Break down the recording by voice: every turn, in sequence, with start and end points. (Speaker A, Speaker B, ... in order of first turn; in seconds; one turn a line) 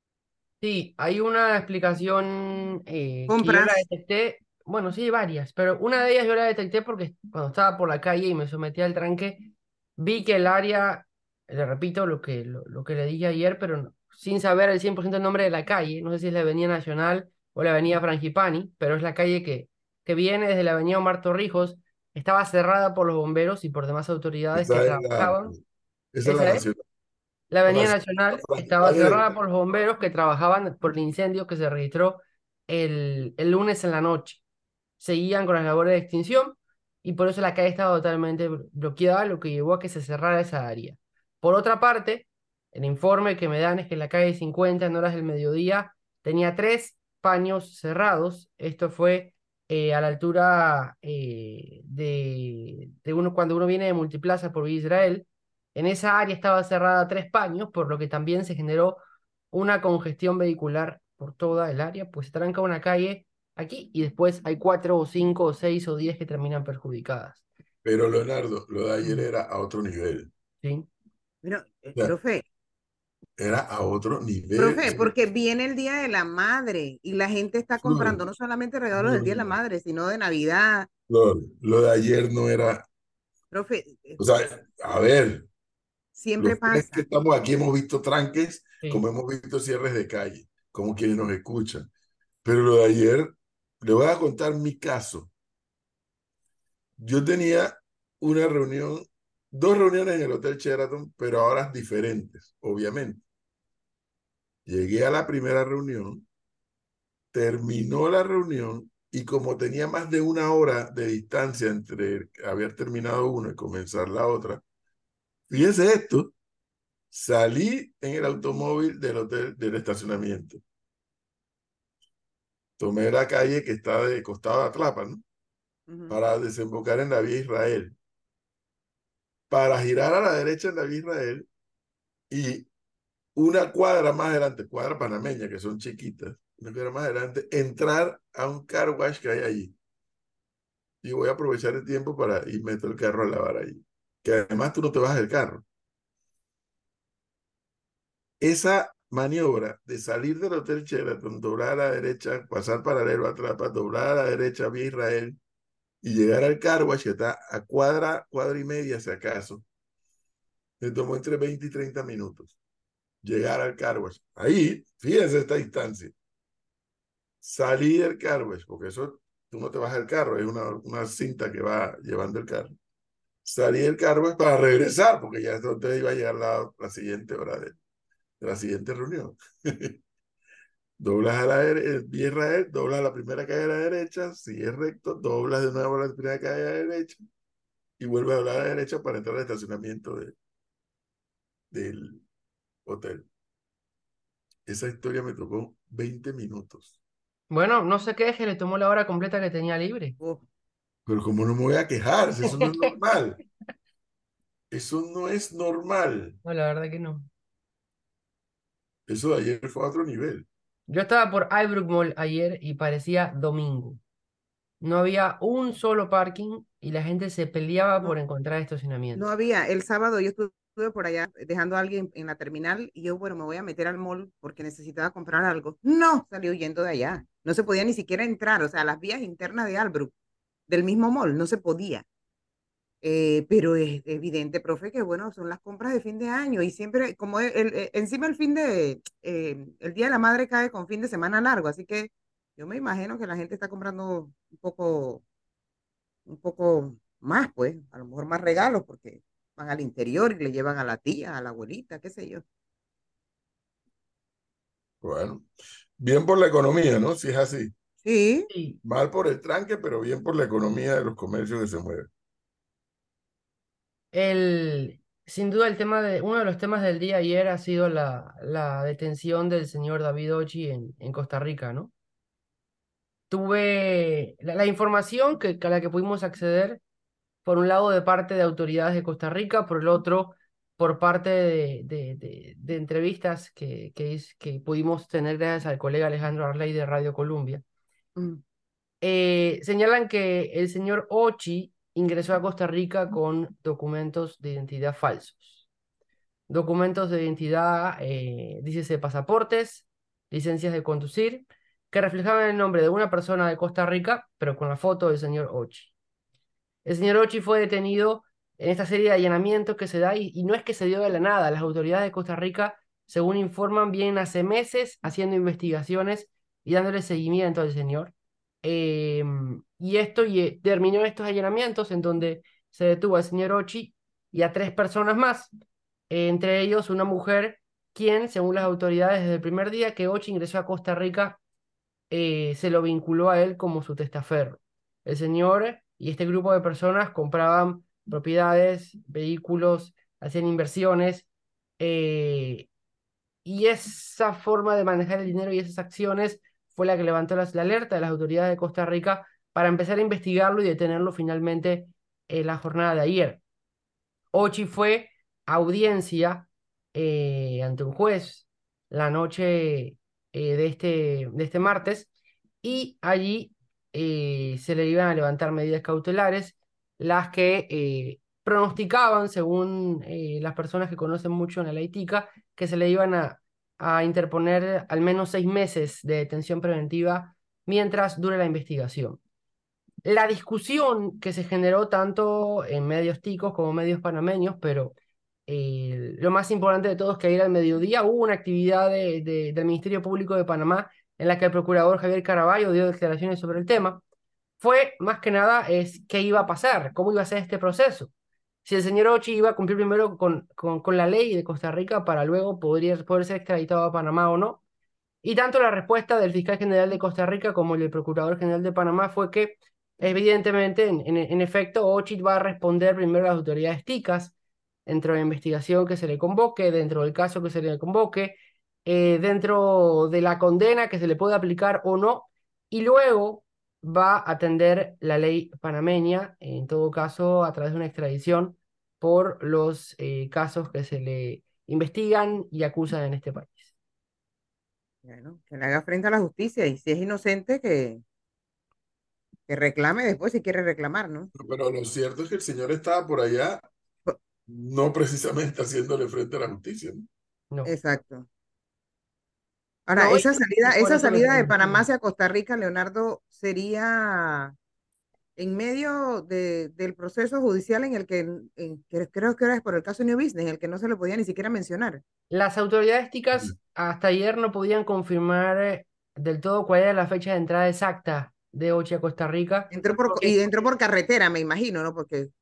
Speaker A: 0.6-25.5
Speaker B: 3.3-3.8
Speaker C: 24.5-25.6
Speaker C: 26.1-26.8
Speaker A: 26.2-26.6
Speaker A: 27.5-34.4
Speaker C: 27.7-29.3
Speaker A: 35.0-59.0
Speaker A: 59.5-67.4
Speaker C: 67.8-70.3
Speaker A: 70.6-70.9
Speaker B: 71.4-72.5
Speaker C: 73.4-75.1
Speaker B: 74.6-80.9
Speaker C: 77.8-78.2
Speaker C: 78.9-79.5
Speaker C: 81.1-82.9
Speaker B: 83.5-84.2
Speaker C: 84.2-85.5
Speaker B: 86.2-87.0
Speaker C: 86.4-91.9
Speaker C: 92.4-95.3
Speaker C: 97.0-103.2
Speaker C: 104.7-106.2
Speaker C: 107.3-114.6
Speaker C: 115.5-116.3
Speaker C: 117.1-120.6
Speaker C: 122.8-125.2
Speaker B: 125.9-126.2
Speaker C: 126.1-128.0
Speaker C: 129.5-131.5
Speaker C: 132.3-132.7
Speaker C: 133.4-139.7
Speaker C: 141.0-145.6
Speaker C: 148.4-155.4
Speaker C: 156.0-159.6
Speaker C: 160.8-162.6
Speaker C: 163.2-166.1
Speaker C: 167.4-172.7
Speaker C: 173.4-177.8
Speaker C: 178.4-180.0
Speaker C: 181.0-187.2
Speaker C: 188.0-190.3
Speaker C: 191.7-192.2
Speaker C: 192.8-193.3
Speaker C: 194.7-196.9
Speaker A: 197.5-200.2
Speaker B: 200.2-200.4
Speaker C: 201.1-203.4
Speaker C: 204.7-206.4
Speaker A: 206.4-207.3
Speaker C: 209.1-210.5
Speaker A: 210.9-214.0
Speaker A: 214.8-219.3
Speaker B: 219.1-230.1
Speaker B: 230.7-232.1
Speaker B: 233.0-245.2
Speaker B: 246.3-252.4
Speaker C: 255.0-257.7
Speaker B: 258.0-258.5
Speaker A: 258.5-258.8
Speaker C: 258.8-262.1
Speaker A: 264.1-271.9
Speaker A: 273.3-276.8
Speaker A: 277.4-287.6
Speaker B: 288.2-288.4
Speaker A: 289.0-295.6
Speaker A: 296.5-305.9
Speaker A: 306.9-325.5
Speaker A: 326.1-331.4
Speaker A: 332.1-341.3
Speaker A: 341.8-342.7
Speaker A: 343.4-353.4
Speaker A: 354.3-362.1
Speaker A: 362.6-379.2
Speaker A: 380.1-384.9
Speaker A: 385.5-394.0
Speaker A: 394.6-398.1
Speaker A: 398.6-404.6
Speaker A: 405.2-414.3
Speaker A: 414.9-433.7
Speaker B: 435.0-438.0
Speaker B: 439.5-441.3
Speaker C: 441.4-443.6
Speaker C: 444.5-447.1
Speaker B: 447.6-448.3
Speaker B: 449.9-454.6
Speaker A: 450.0-451.9
Speaker B: 455.4-462.0
Speaker A: 462.3-470.4
Speaker B: 469.7-472.3